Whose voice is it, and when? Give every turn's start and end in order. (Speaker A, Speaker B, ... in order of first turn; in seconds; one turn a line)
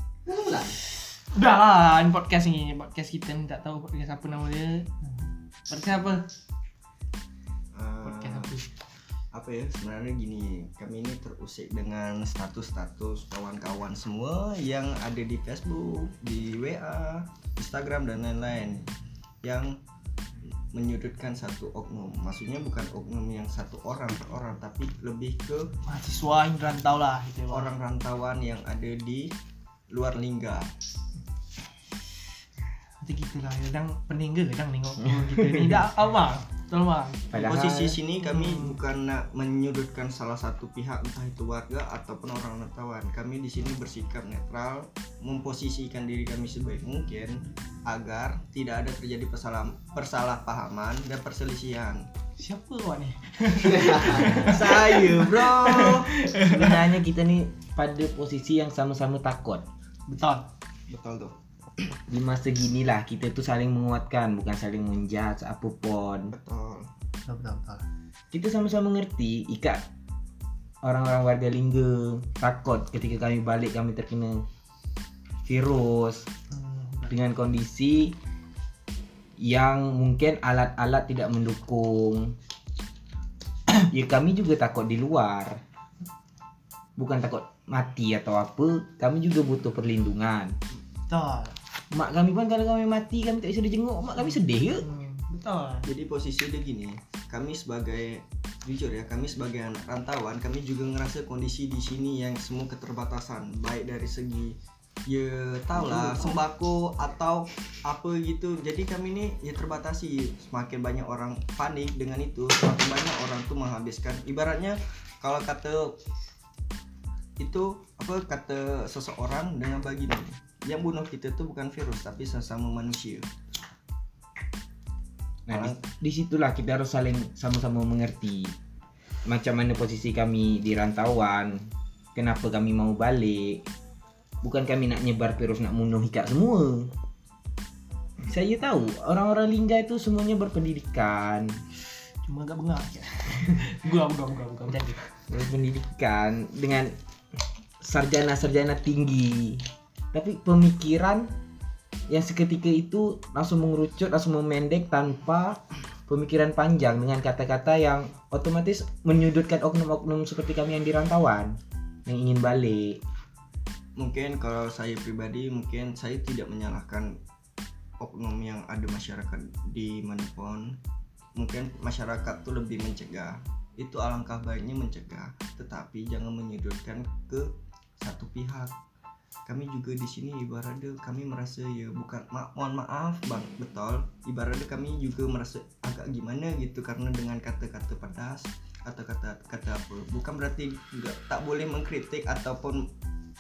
Speaker A: 0.3-0.6
Speaker B: 0.9-6.3
Speaker C: 7.7-8.5
Speaker B: 8.0-8.7
Speaker C: 9.3-18.9
Speaker C: 19.4-19.8
Speaker C: 20.7-25.7
Speaker B: 25.8-27.7
Speaker C: 27.5-29.3
Speaker C: 29.9-30.7
Speaker B: 33.0-37.4
Speaker A: 37.3-38.0
Speaker C: 37.4-52.0
Speaker B: 38.2-38.8
Speaker B: 52.4-56.9
Speaker A: 54.1-54.5
Speaker C: 54.4-56.1
Speaker A: 56.5-59.6
Speaker B: 60.1-60.5
Speaker C: 60.9-61.4
Speaker A: 62.1-66.3
Speaker C: 66.3-66.9
Speaker B: 67.3-67.8
Speaker A: 68.3-69.8
Speaker A: 70.8-74.4
Speaker A: 75.5-76.3
Speaker B: 76.5-77.2
Speaker A: 77.1-78.2
Speaker A: 79.4-82.3
Speaker A: 83.8-85.5
Speaker A: 87.0-90.5
Speaker B: 91.1-91.6
Speaker A: 91.9-94.9
Speaker B: 94.2-95.9
Speaker C: 95.9-104.6
Speaker C: 105.1-116.0
Speaker C: 117.4-123.3
Speaker A: 125.5-128.6
Speaker C: 125.5-125.8
Speaker A: 129.3-133.7
Speaker A: 134.4-136.9
Speaker A: 138.2-141.5
Speaker B: 142.2-145.1
Speaker A: 145.3-146.9
Speaker A: 147.8-151.3
Speaker A: 152.1-163.0
Speaker C: 164.0-167.1
Speaker C: 168.0-170.8
Speaker C: 171.4-177.5
Speaker C: 178.0-178.7
Speaker C: 179.5-192.9